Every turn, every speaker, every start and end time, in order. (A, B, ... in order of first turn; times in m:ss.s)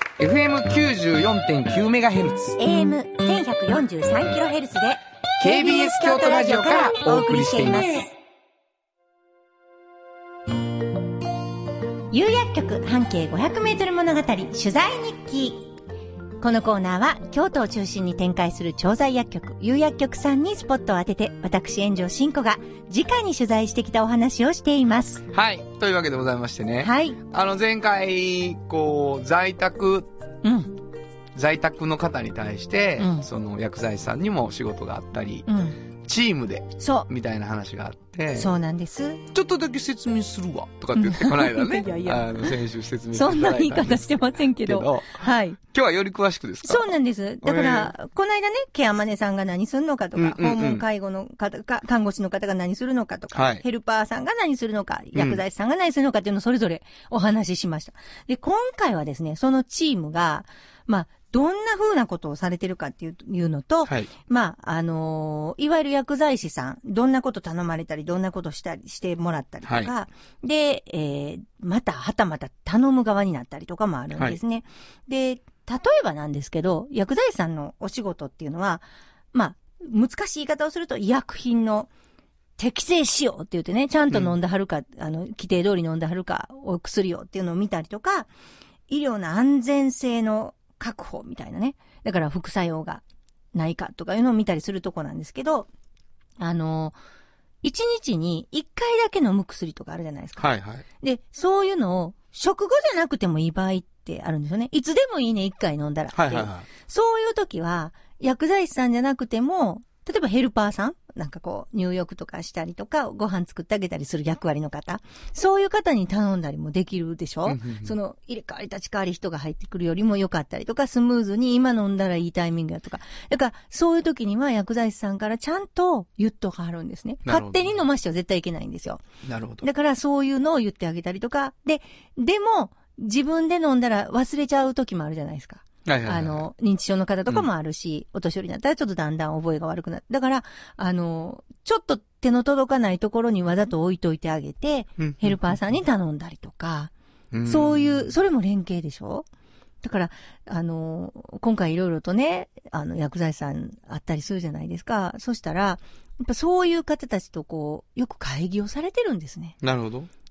0:00.2-0:02.6 A
0:02.6-0:08.1 B
0:05.4-0:08.1 A
0:12.1-0:15.7 B
0:16.4-0:25.2 B
0:25.3-0:30.1 A
0:26.8-0:27.2 B
0:30.4-0:30.7 B
0:31.3-0:35.5 A
0:33.0-0:33.2 B
0:35.5-0:35.8 B
0:36.0-0:38.5 A
0:36.8-0:37.1 B
0:38.4-0:39.2 B
0:39.3-0:47.9 A
0:40.9-0:42.6 B
0:43.1-0:45.6 B
0:46.6-1:21.9 B
0:50.1-0:50.8 A
0:53.3-0:53.6 A
0:55.1-0:55.4 A
1:09.6-1:09.9 A
1:22.6-1:28.3 B
1:28.9-1:33.0 B
1:33.5-1:35.7 B
1:36.4-1:37.0 B
1:37.6-2:09.0 B
1:40.4-1:40.8 A
1:46.1-1:46.6 A
1:57.4-1:57.9 A
2:07.2-2:07.8 A
2:09.2-2:09.6 A
2:09.6-2:26.9 B
2:15.8-2:16.5 A
2:25.0-2:25.6 A
2:27.3-2:28.1 A
2:27.4-2:29.3 B
2:29.8-2:39.6 B
2:39.6-2:40.1 A